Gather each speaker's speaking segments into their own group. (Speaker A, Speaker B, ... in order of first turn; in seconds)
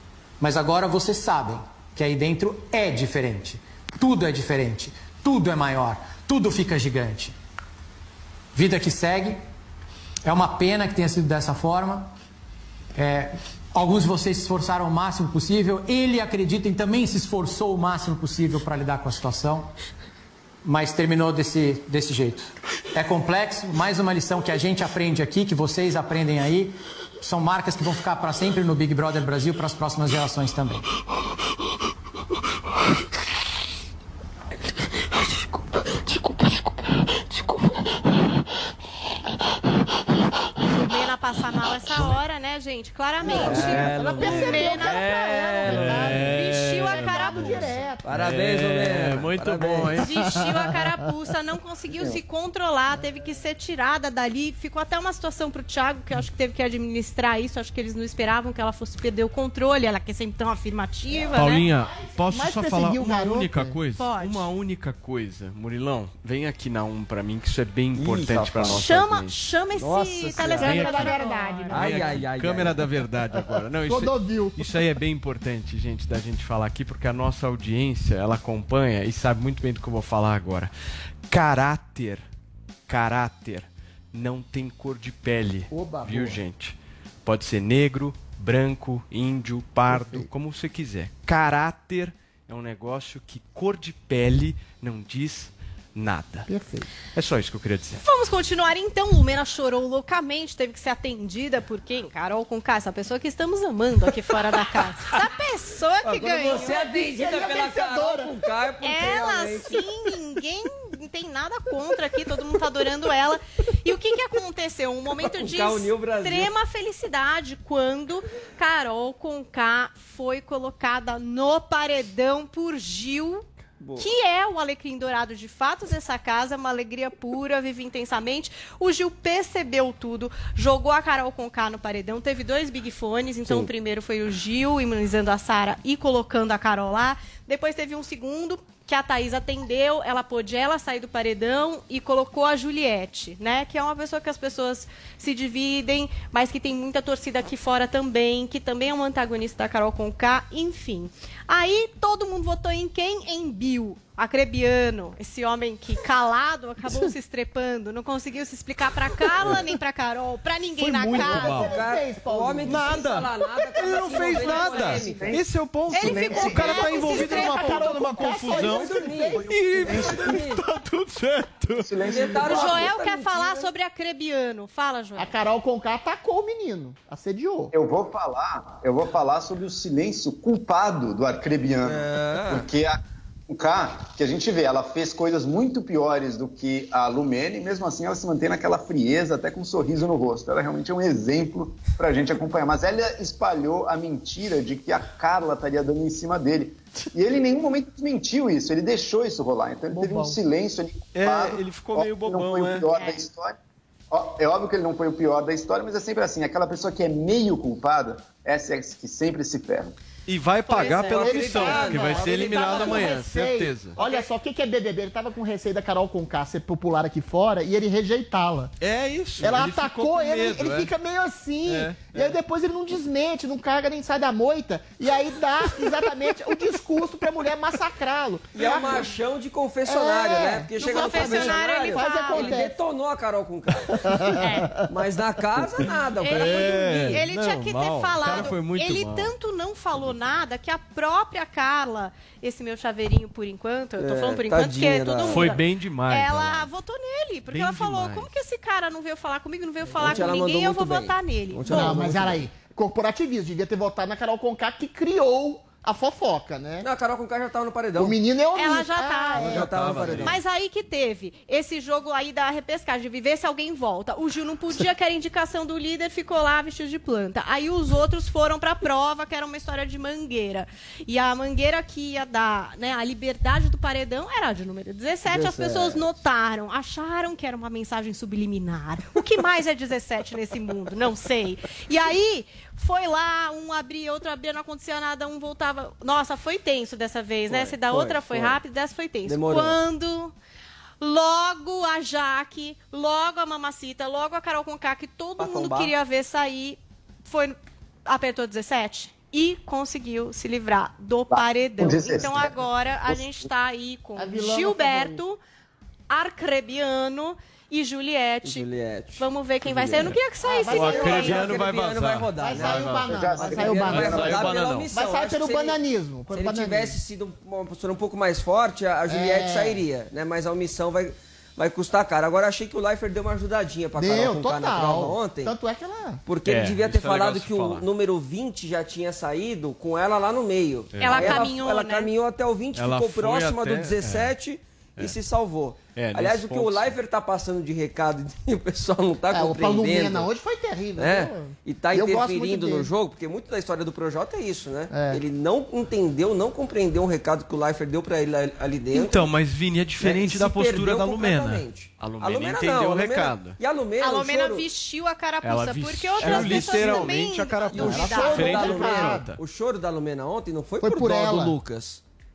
Speaker A: 0.4-7.3, 8.5-9.4, 10.2-12.1, 12.9-19.7, 20.6-30.9
Speaker B: 40.7-47.8, 50.0-61.7, 64.0-64.5, 68.7-71.8, 98.0-106.8, 108.8-123.4, 124.0-161.6, 165.9-167.9, 172.3-175.3, 202.9-203.2, 214.0-214.3, 230.8-232.5, 234.4-234.7, 236.2-252.0, 258.5-259.6, 260.2-290.3, 291.0-305.4, 306.1-311.4, 331.0-332.1, 354.0-358.7
Speaker C: 43.2-46.2, 48.0-50.0, 67.9-68.9, 69.8-72.9, 106.0-109.8, 115.1-116.5, 123.8-124.1, 161.1-165.3, 168.4-170.6, 172.0-173.7, 181.8-182.6, 210.7-213.2, 228.5-233.9, 234.9-237.2, 244.0-245.5, 249.9-252.4, 256.8-258.2, 259.3-260.4, 275.3-276.0, 287.5-288.6, 289.2-289.8, 295.4-295.9, 308.4-310.2, 310.8-325.5, 326.2-340.3, 340.9-349.3, 350.0-354.6, 356.2-357.1, 357.7-362.0
Speaker D: 43.2-48.1, 61.1-63.8, 70.5-72.2, 73.3-74.8, 85.7-86.4, 89.9-90.3, 96.5-96.9, 106.6-108.3, 156.9-157.1, 161.1-163.3, 165.9-170.3, 175.2-177.7, 199.9-200.4, 210.7-218.7, 219.4-229.1, 229.8-232.8, 234.0-234.8, 251.7-256.9, 258.0-260.2, 304.2-305.2, 310.4-311.6, 312.4-317.0, 319.1-319.8, 324.0-326.2, 339.3-342.9, 344.9-345.2, 357.8-359.4, 360.8-361.6
Speaker E: 43.5-43.9, 45.7-50.1, 61.3-69.3, 70.6-71.0, 71.7-80.7, 81.3-82.2, 82.9-96.5, 97.1-98.0, 160.8-161.8, 162.6-172.4, 201.1-202.9, 210.2-214.0, 218.8-220.9, 221.7-222.4, 236.2-239.3, 245.3-246.7, 247.5-248.3, 259.4-260.4, 310.7-313.2, 313.7-314.9, 326.4-327.9, 330.9-331.4, 332.7-334.4, 335.9-337.0, 348.9-353.6, 355.4-359.4
Speaker F: 164.3-165.5, 166.2-166.5, 169.3-170.4, 171.7-172.9, 177.7-203.6, 204.1-209.9, 301.3-303.5, 313.0-314.6